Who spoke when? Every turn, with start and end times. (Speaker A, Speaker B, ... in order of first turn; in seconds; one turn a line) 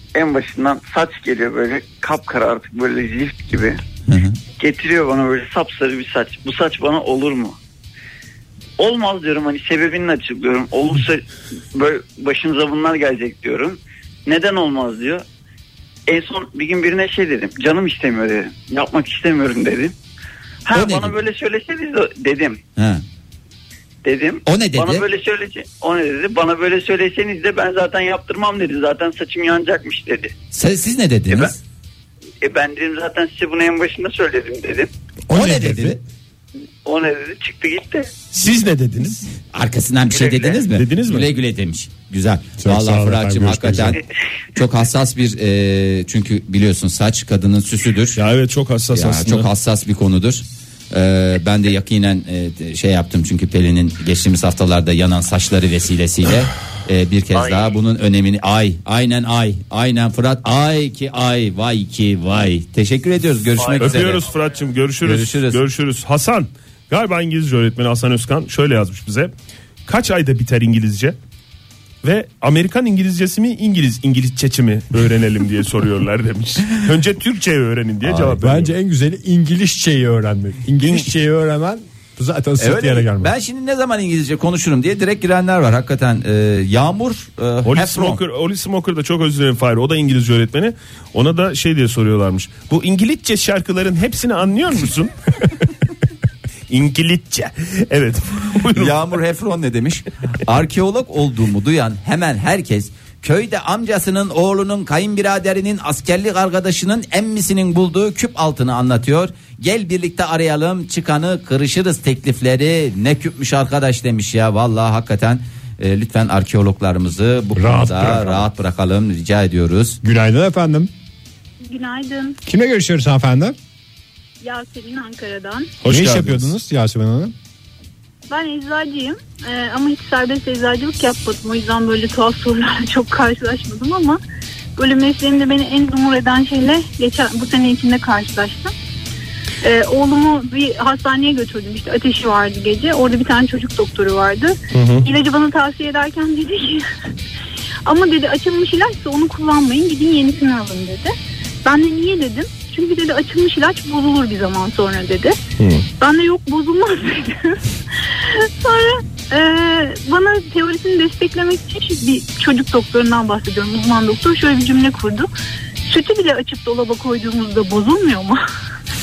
Speaker A: 0.1-3.8
Speaker B: 4.1-4.4
Speaker A: 4.6-7.6
Speaker A: 8.8-15.2
Speaker A: 16.1-19.9
Speaker A: 20.6-22.6
Speaker B: 20.7-21.2
Speaker B: 22.8-23.0
Speaker A: 24.0-30.3
Speaker B: 24.4-25.1
Speaker B: 30.5-31.6
Speaker A: 31.3-31.5
Speaker A: 32.4-34.9
Speaker C: 35.3-36.0
Speaker B: 35.3-36.0
Speaker A: 36.8-38.1
Speaker D: 38.3-39.2
Speaker B: 39.5-44.0
Speaker A: 40.1-40.6
Speaker D: 40.7-41.3
Speaker C: 42.6-44.0
Speaker B: 44.5-48.2
Speaker D: 48.2-49.5
Speaker B: 48.9-64.2
Speaker D: 63.8-69.3
Speaker B: 65.0-65.6
Speaker D: 69.9-71.2
Speaker D: 72.0-78.7
Speaker B: 78.0-78.3
Speaker C: 78.3-83.3
Speaker B: 82.6-88.2
Speaker D: 87.6-95.1
Speaker D: 96.7-99.0
Speaker B: 98.7-120.0
Speaker C: 117.5-118.5
Speaker C: 120.0-120.9
Speaker E: 121.7-122.3
Speaker C: 122.5-123.5
Speaker E: 124.4-125.6
Speaker D: 125.8-126.5
Speaker C: 125.8-127.3
Speaker E: 128.3-134.2
Speaker E: 134.8-138.7
Speaker E: 139.6-144.5
Speaker D: 144.7-145.1
Speaker E: 145.1-146.8
Speaker E: 147.9-151.1
Speaker E: 151.6-155.3
Speaker D: 155.6-155.8
Speaker E: 156.0-157.5
Speaker E: 158.6-165.2
Speaker E: 165.9-168.3